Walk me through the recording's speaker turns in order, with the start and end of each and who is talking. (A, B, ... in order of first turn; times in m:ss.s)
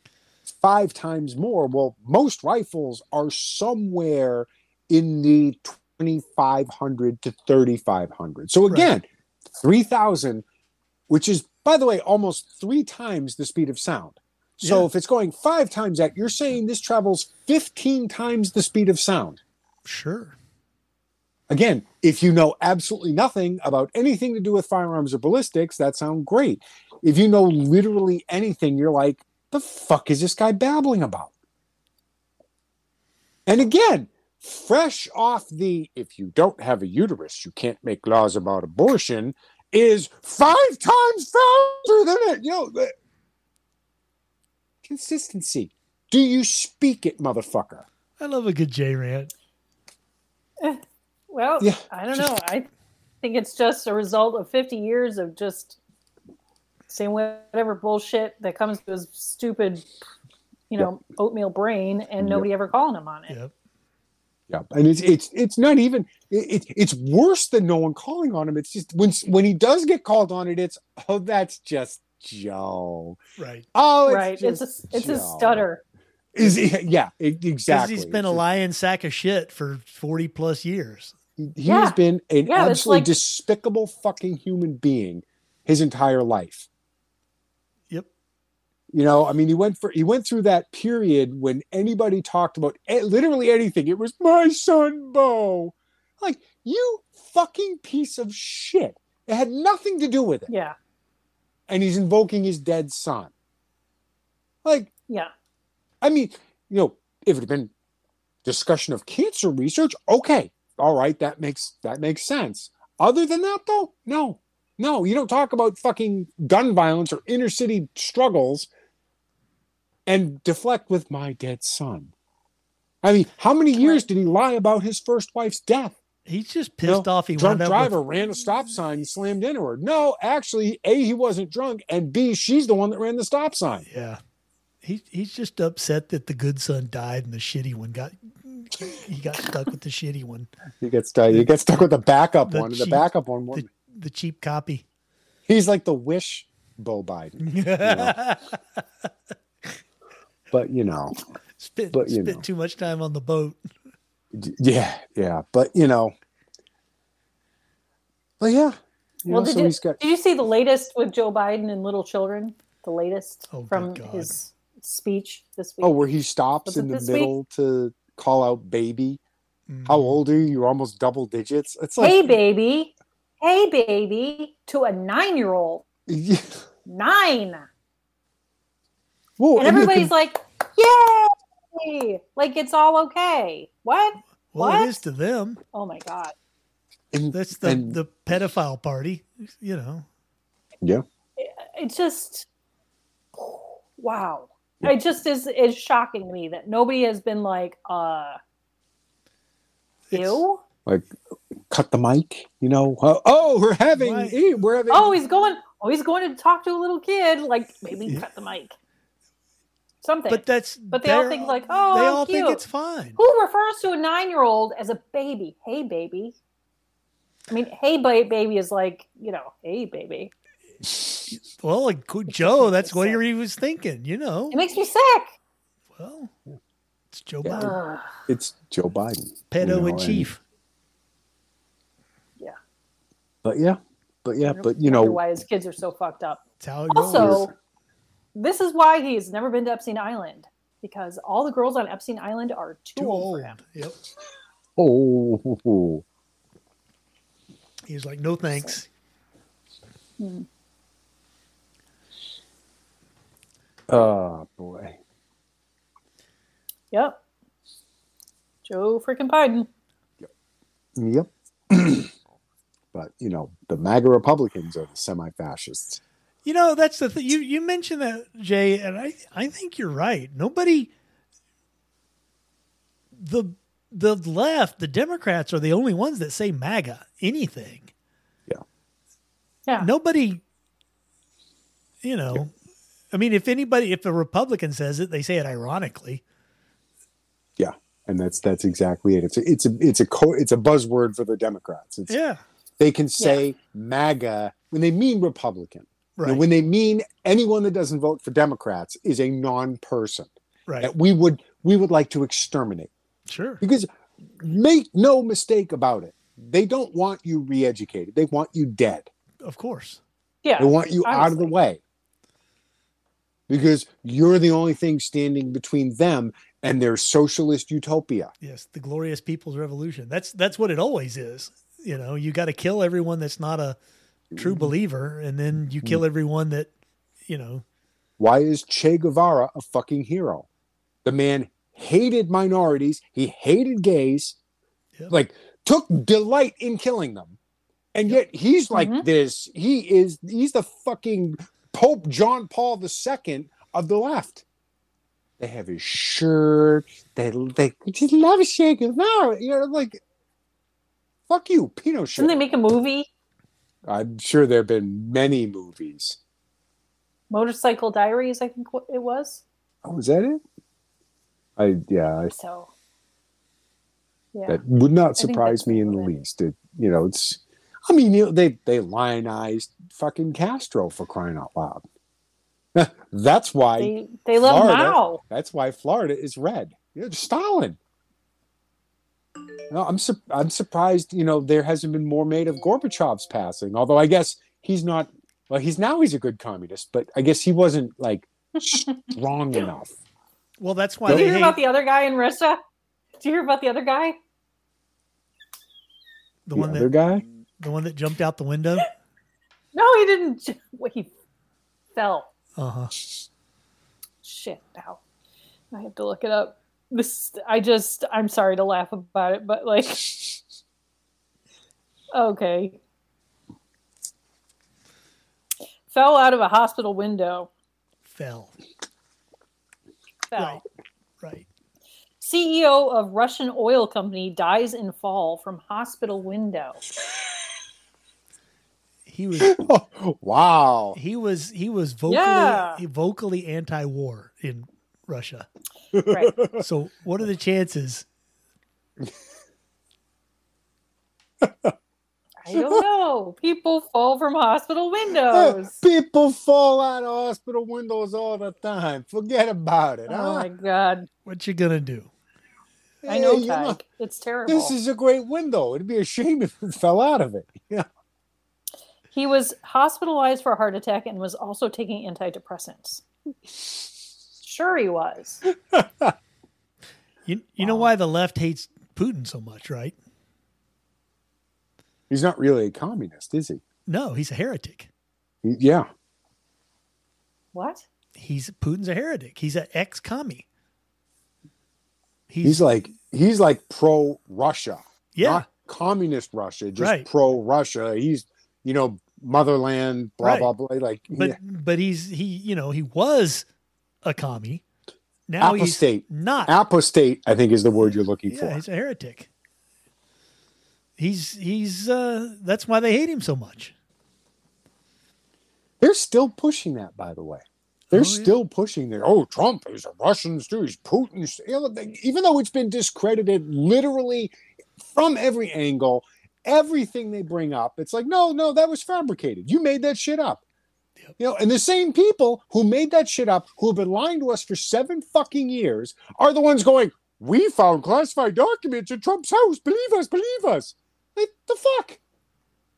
0:00.5-0:10.4 A
0:11.1-0:19.4 A
0:14.6-0:14.9 B
0:19.8-0:20.3 B
0:21.5-0:31.3 A
0:33.4-0:42.9 A
0:44.8-0:47.8 A
0:48.2-0:49.3 B
0:50.6-0:52.7 C
0:51.6-0:52.2 A
0:53.2-0:55.8 C
0:56.9-0:59.9 C
1:00.7-1:03.4 C
1:02.2-1:02.5 A
1:04.5-1:13.2 A
1:13.4-1:13.6 B
1:13.7-1:15.6 A
1:14.0-1:15.8 C
1:16.3-1:18.4 A
1:17.7-1:21.1 B
1:21.4-1:26.7 A
1:21.6-1:23.2 C
1:28.9-1:40.5 A
1:40.5-1:40.7 C
1:41.7-1:43.3 A
1:44.6-1:44.9 A
1:46.0-1:47.7 A
1:48.4-1:58.7 A
2:00.0-2:02.1 A
2:03.0-2:06.0 A
2:03.8-2:04.0 C
2:06.2-2:07.9 B
2:06.8-2:13.8 A
2:13.9-2:14.2 B
2:14.8-2:20.5 B
2:20.8-2:23.7 A
2:22.5-2:24.8 B
2:25.5-2:28.2 A
2:27.4-2:28.6 B
2:30.5-2:31.1 A
2:31.6-2:33.6 B
2:31.9-2:32.4 A
2:34.3-2:36.1 A
2:38.4-2:40.0 A
2:39.3-2:46.0 C
2:43.5-2:44.3 B
2:45.8-2:49.2 A
2:46.6-2:47.3 C
2:49.7-2:50.2 B
2:49.9-2:52.4 A
2:52.0-2:55.8 C
2:56.1-2:56.6 A
2:56.8-2:57.7 C
2:59.4-3:00.1 A
2:59.6-3:05.0 C
3:04.5-3:05.6 B
3:05.7-3:06.3 C
3:07.1-3:08.0 A
3:07.3-3:10.0 B
3:11.4-3:12.5 C
3:13.5-3:18.4 C
3:20.1-3:20.4 B
3:20.1-3:20.6 C
3:21.7-3:25.2 A
3:23.9-3:24.4 B
3:24.9-3:28.7 C
3:30.0-3:32.6 C
3:30.3-3:33.2 B
3:33.2-3:36.4 C
3:37.5-3:40.3 C
3:41.3-3:44.6 B
3:42.4-3:43.2 C
3:44.5-3:45.3 C
3:46.0-3:46.3 B
3:47.1-3:47.8 B
3:47.5-3:48.1 C
3:48.3-3:50.3 A
3:49.5-3:50.4 B
3:53.4-3:55.2 A
3:54.4-3:56.4 C
3:56.6-3:57.4 B
3:56.9-3:57.5 C
3:57.2-3:57.5 A
3:58.3-4:03.6 C
4:03.0-4:04.0 B
4:04.8-4:06.0 A
4:07.9-4:08.9 B
4:10.2-4:10.5 C
4:13.9-4:15.0 A
4:16.9-4:17.2 C
4:18.6-4:19.7 C
4:21.0-4:22.1 A
4:22.9-4:26.0 A
4:26.4-4:30.9 B
4:33.1-4:37.9 B
4:39.8-4:40.4 B
4:42.0-4:42.5 B
4:43.1-4:46.2 B
4:47.6-4:52.1 A
4:52.1-4:52.4 B
4:52.8-5:02.9 A
4:56.2-4:56.4 B
5:03.3-5:03.6 B
5:03.6-5:09.1 A
5:09.4-5:10.0 B
5:10.4-5:11.5 C
5:10.6-5:11.8 A
5:13.5-5:18.3 A
5:18.4-5:23.8 B
5:24.3-5:24.7 A
5:24.3-5:26.7 B
5:27.3-5:27.6 B
5:28.2-5:30.5 A
5:31.0-5:34.4 A
5:35.1-5:37.4 A
5:37.9-5:44.4 A
5:38.7-5:39.0 C
5:45.4-5:50.0 A
5:51.3-5:52.4 A
5:52.2-5:53.1 C
5:53.9-5:56.2 A
5:57.3-5:59.4 C
5:59.8-6:00.4 A
6:01.6-6:02.3 A
6:02.3-6:02.7 C
6:04.3-6:04.6 C
6:04.5-6:11.8 A
6:05.2-6:06.1 C
6:12.7-6:17.8 A
6:13.8-6:15.2 C
6:19.7-6:29.9 A
6:28.7-6:29.1 C
6:30.6-6:31.6 B
6:31.1-6:31.3 A
6:31.1-6:32.6 C
6:33.2-6:34.2 C
6:36.4-6:36.9 B
6:36.6-6:37.2 A
6:37.6-6:38.9 B
6:39.7-6:41.1 C
6:41.9-6:42.3 C
6:42.6-6:42.9 B
6:44.2-6:45.0 C
6:45.7-6:50.3 C
6:52.1-6:52.8 C
6:55.9-6:57.5 C
6:58.1-6:58.5 B
7:00.3-7:00.6 C
7:00.4-7:00.6 B
7:01.2-7:01.4 B
7:02.2-7:06.8 C
7:09.1-7:09.6 B
7:09.4-7:11.0 A
7:11.0-7:15.5 B
7:12.1-7:12.8 C
7:15.9-7:16.6 A
7:16.1-7:16.4 C
7:16.5-7:18.0 B
7:21.4-7:21.7 A
7:22.4-7:25.8 C
7:22.5-7:22.8 A
7:25.3-7:30.5 A
7:30.1-7:31.1 C
7:31.2-7:32.1 B
7:33.0-7:33.8 A
7:33.0-7:34.7 C
7:34.5-7:37.8 A
7:39.1-7:43.0 C
7:44.4-7:45.4 C
7:45.7-7:46.1 A
7:47.2-7:49.9 B
7:47.6-7:47.9 A
7:52.1-7:53.6 A
7:53.9-7:54.9 B
7:55.4-7:55.9 A
7:57.5-7:57.8 C
7:58.2-8:00.4 B
8:02.3-8:02.6 B
8:02.4-8:11.4 A
8:05.1-8:05.4 B
8:06.8-8:07.1 B
8:10.2-8:10.5 B
8:11.2-8:13.4 B
8:14.0-8:14.6 B
8:15.3-8:16.5 B
8:15.4-8:18.6 A
8:17.8-8:19.3 B
8:21.0-8:23.7 B
8:25.8-8:40.4 A
8:27.9-8:28.3 B
8:41.2-8:52.0 A